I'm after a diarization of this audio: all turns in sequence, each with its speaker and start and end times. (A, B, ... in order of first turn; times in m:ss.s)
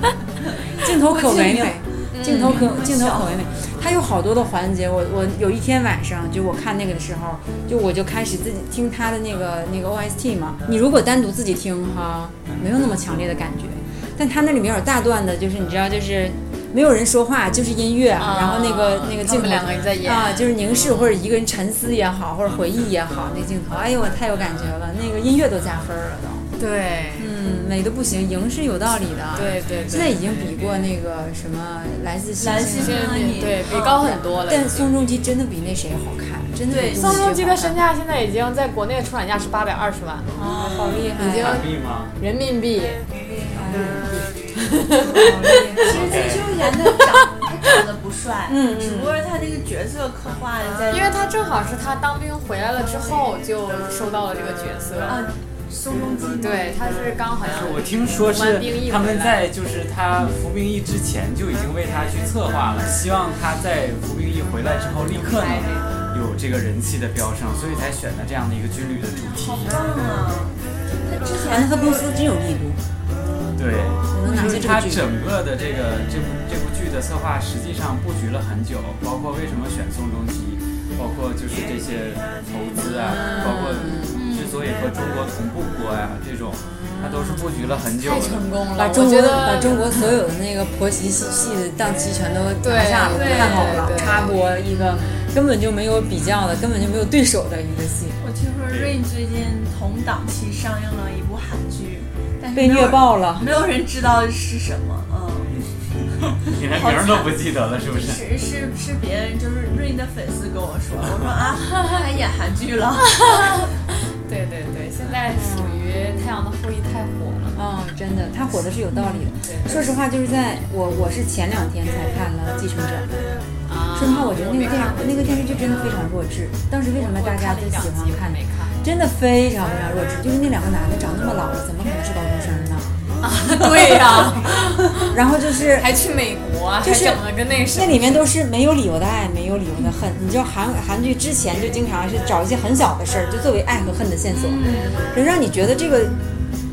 0:00.5-0:03.4 A
0:00.8-0:26.4 B
0:02.1-0:02.7 C
0:18.2-0:20.5 C
0:26.6-0:27.3 C
0:27.2-0:37.8 B
0:29.3-0:30.3 C
0:32.4-0:34.2 A
0:32.8-0:34.9 C
0:36.7-0:37.3 A
0:36.9-0:40.3 C
0:40.3-0:40.8 A
0:40.3-0:41.6 B
0:41.2-0:43.0 C
0:41.3-0:42.1 D
0:43.5-0:44.1 B
0:43.7-0:45.9 C
0:44.9-0:46.2 B
0:45.8-0:51.1 A
0:45.9-0:46.6 D
0:48.5-0:49.2 B
0:50.9-0:55.2 C
0:55.0-0:56.8 A
0:55.9-0:56.4 D
0:56.4-0:59.4 C
0:57.4-1:09.8 D
1:05.2-1:05.8 C
1:09.1-1:12.0 A
1:11.3-1:12.8 B
1:13.6-1:28.4 D
1:14.1-1:15.0 B
1:22.8-1:24.2 B
1:23.2-1:23.7 C
1:24.1-1:24.6 A
1:26.7-1:27.4 B
1:28.0-1:29.9 C
1:28.8-1:38.2 B
1:32.6-1:35.2 C
1:33.1-1:33.9 A
1:38.2-1:45.5 A
1:38.7-1:39.0 D
1:42.5-1:43.5 B
1:46.2-1:48.2 D
1:46.5-1:53.5 A
1:51.6-1:52.2 C
1:53.0-1:57.6 C
1:55.3-1:55.8 B
1:57.5-2:03.1 B
1:59.4-1:59.8 C
2:03.7-2:05.1 C
2:03.9-2:13.0 B
2:04.6-2:04.9 A
2:06.9-2:08.7 C
2:13.2-2:15.1 C
2:13.6-2:14.4 B
2:15.0-2:15.9 B
2:15.8-2:18.3 C
2:16.8-2:17.2 B
2:17.7-2:26.2 B
2:24.4-2:25.0 A
2:24.6-2:25.0 C